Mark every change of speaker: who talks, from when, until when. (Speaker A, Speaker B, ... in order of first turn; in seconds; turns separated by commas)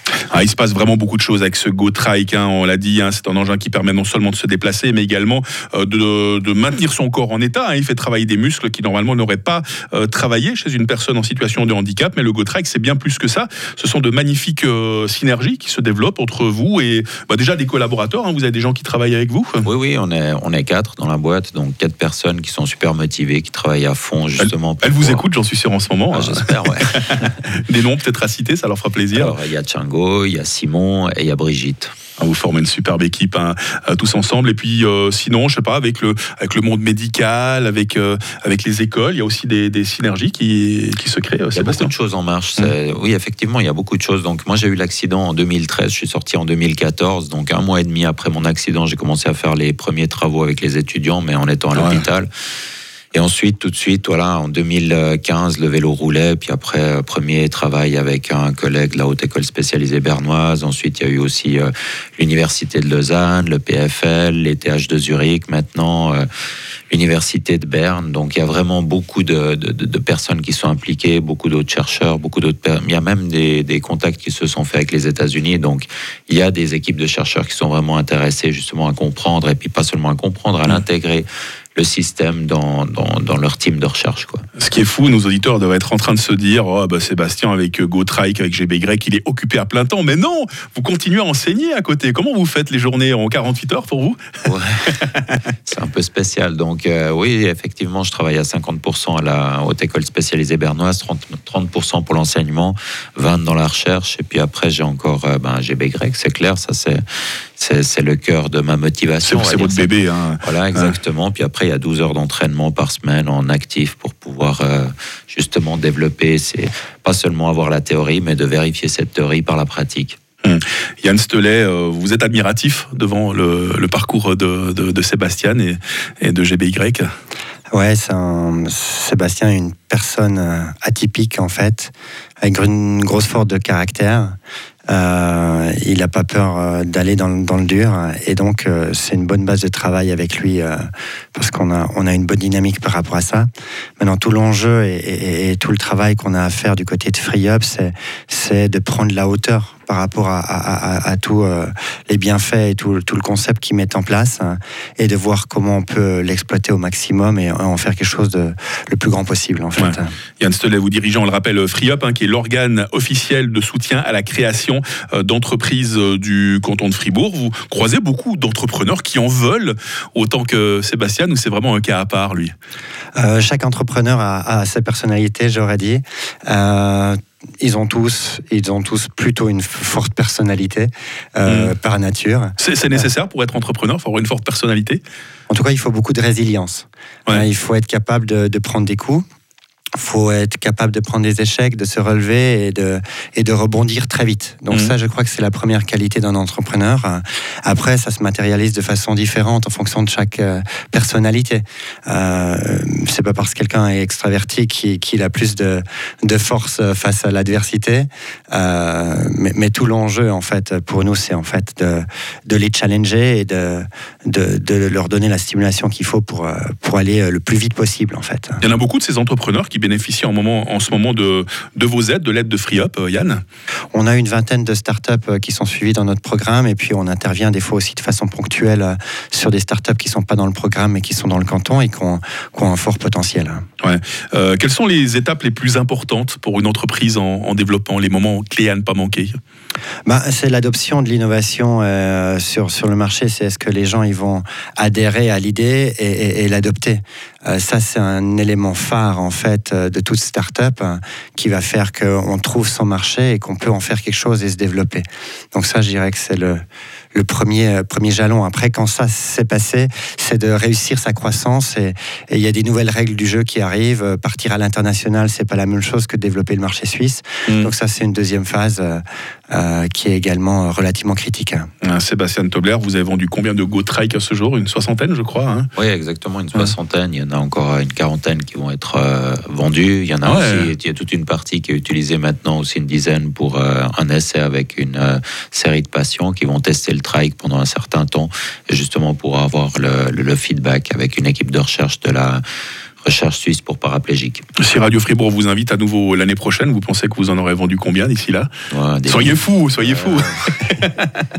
Speaker A: 0.3-19.6, Speaker B: 19.6-25.2, Speaker A: 24.4-29.4, Speaker B: 26.1-27.4, Speaker B: 29.1-31.9, Speaker A: 32.2-41.9, Speaker B: 41.5-52.3, Speaker A: 51.7-52.0, Speaker B: 53.1-66.2, Speaker B: 66.9-84.4, Speaker A: 84.6-94.2, Speaker B: 94.5-95.1, Speaker B: 95.7-107.0, Speaker B: 107.6-109.9, Speaker A: 109.2-110.9, Speaker B: 110.4-120.2, Speaker A: 120.4-127.1, Speaker C: 127.7-134.3, Speaker C: 134.9-143.5, Speaker C: 144.0-160.1, Speaker A: 159.8-172.5, Speaker C: 173.1-183.0, Speaker A: 181.4-181.7, Speaker A: 182.6-185.0, Speaker C: 185.5-189.2, Speaker C: 189.9-218.6, Speaker A: 218.6-223.4, Speaker C: 223.9-233.6, Speaker A: 233.8-239.4, Speaker C: 240.0-256.6, Speaker C: 257.1-271.7, Speaker A: 267.5-267.7, Speaker A: 271.8-275.7, Speaker B: 275.7-292.4, Speaker A: 280.2-280.7, Speaker B: 293.0-294.4, Speaker A: 294.6-298.5, Speaker B: 298.7-300.4, Speaker A: 299.1-301.1